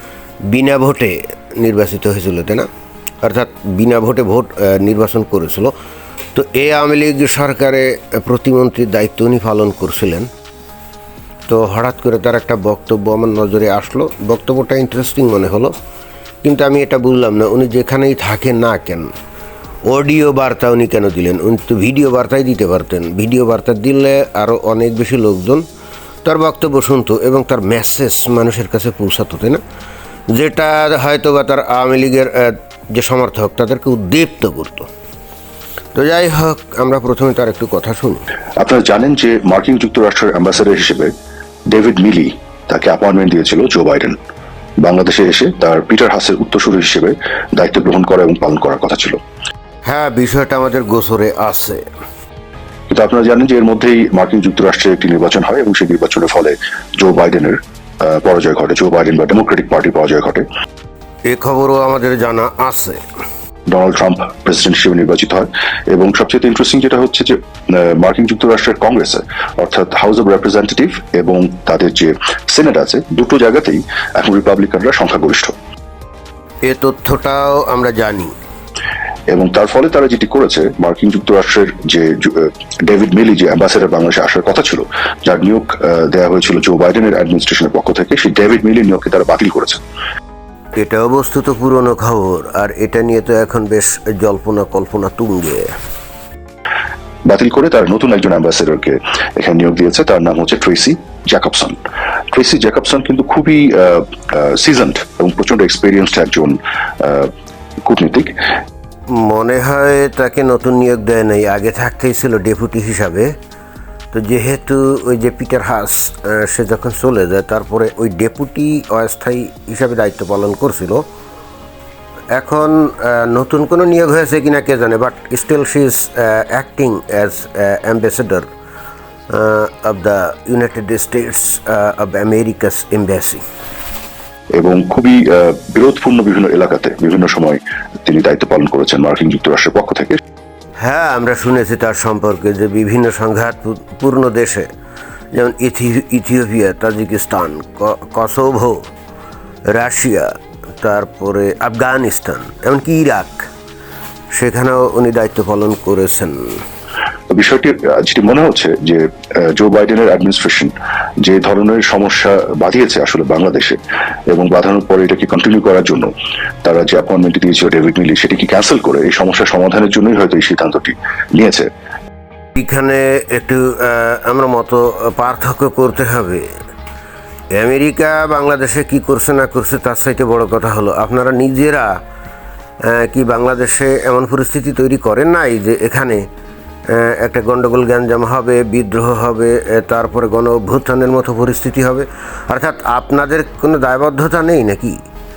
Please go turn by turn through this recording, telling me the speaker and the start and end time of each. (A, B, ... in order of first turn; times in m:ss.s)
0:00.5-0:02.7 A
0:03.2-0:05.7 A
0:06.3-0:10.3 A
0:11.5-0:15.8 A
0:16.4-0:19.1 A
0:19.9-0:25.6 A
0:26.2-0:29.6 A
0:30.3-0:34.9 A
0:36.0-0:38.2 A
0:38.6-0:41.1 B
0:41.7-0:44.2 B
0:44.8-0:49.2 B
0:49.9-0:51.8 A
0:52.9-1:00.5 B
1:01.3-1:03.0 A
1:03.7-1:15.5 B
1:16.6-1:18.3 A
1:19.3-1:29.8 B
1:30.8-1:35.7 A
1:37.3-1:41.8 B
1:42.3-1:47.3 B
1:47.9-1:48.4 B
1:49.1-1:53.4 A
1:54.1-2:01.0 A
2:02.3-2:08.5 A
2:09.3-2:13.4 A
2:14.6-2:20.2 B
2:20.8-2:24.7 A
2:25.4-2:28.8 A
2:29.7-2:33.5 A
2:34.3-2:36.6 A
2:37.3-2:43.8 B
2:44.3-2:46.1 B
2:46.6-2:51.7 B
2:52.6-2:56.5 A
2:57.5-3:02.0 A
3:02.9-3:06.2 A
3:06.9-3:15.0 A